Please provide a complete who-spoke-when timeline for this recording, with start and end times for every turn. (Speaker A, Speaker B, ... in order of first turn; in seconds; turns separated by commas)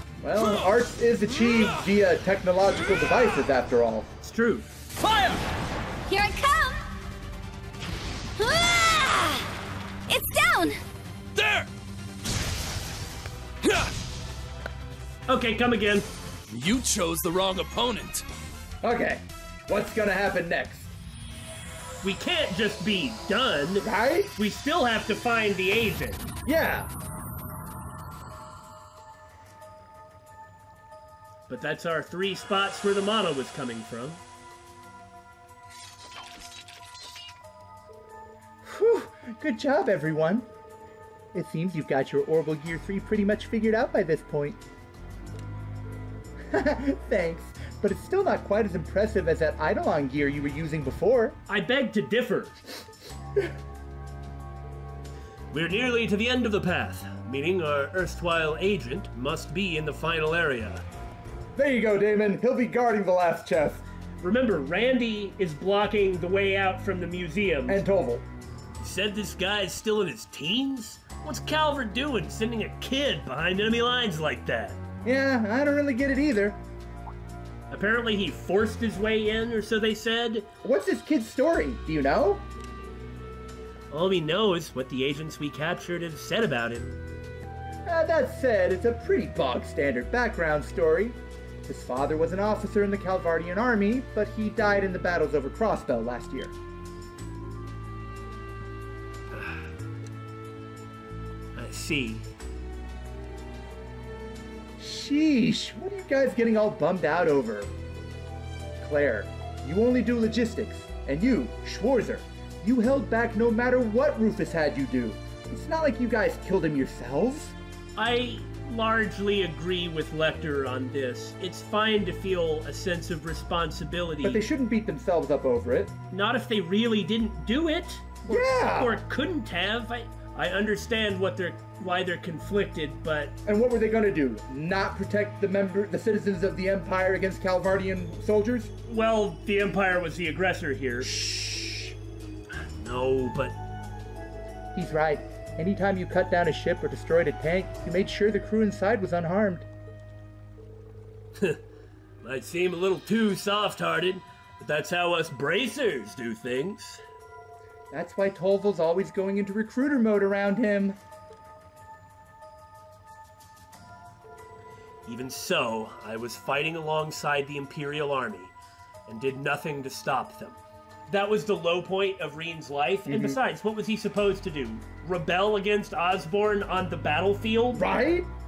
Speaker A: 0.2-4.1, Speaker B: 4.2-4.7, Speaker C: 5.0-5.4, Speaker D: 6.1-6.8, Speaker D: 8.4-9.5, Speaker D: 10.1-10.8, Speaker C: 11.3-11.7, Speaker C: 13.6-13.9, Speaker B: 15.3-16.1, Speaker C: 16.5-18.2, Speaker A: 18.8-20.9, Speaker B: 22.0-26.3, Speaker A: 23.8-24.3, Speaker A: 26.4-26.9, Speaker B: 31.5-34.2, Speaker A: 38.6-40.5, Speaker A: 41.3-44.6, Speaker A: 46.5-51.4, Speaker B: 51.5-52.6, Speaker B: 55.5-60.8, Speaker A: 61.5-63.8, Speaker B: 64.2-67.8, Speaker A: 67.7-68.3, Speaker B: 68.8-74.8, Speaker A: 75.0-76.6, Speaker B: 77.7-80.5, Speaker A: 80.6-82.5, Speaker B: 83.9-87.0, Speaker A: 87.9-96.5, Speaker B: 99.3-99.6, Speaker B: 101.6-102.2, Speaker A: 104.8-107.7, Speaker A: 108.8-117.6, Speaker B: 118.0-124.5, Speaker A: 124.2-125.9, Speaker B: 126.1-133.3, Speaker A: 128.2-129.0, Speaker A: 133.4-138.7, Speaker B: 138.9-141.2, Speaker A: 141.0-142.0, Speaker B: 142.5-143.6, Speaker A: 144.8-149.7, Speaker B: 152.2-157.0, Speaker A: 157.9-161.0, Speaker B: 165.1-168.5, Speaker B: 169.1-177.9, Speaker A: 173.1-173.4, Speaker A: 177.7-178.3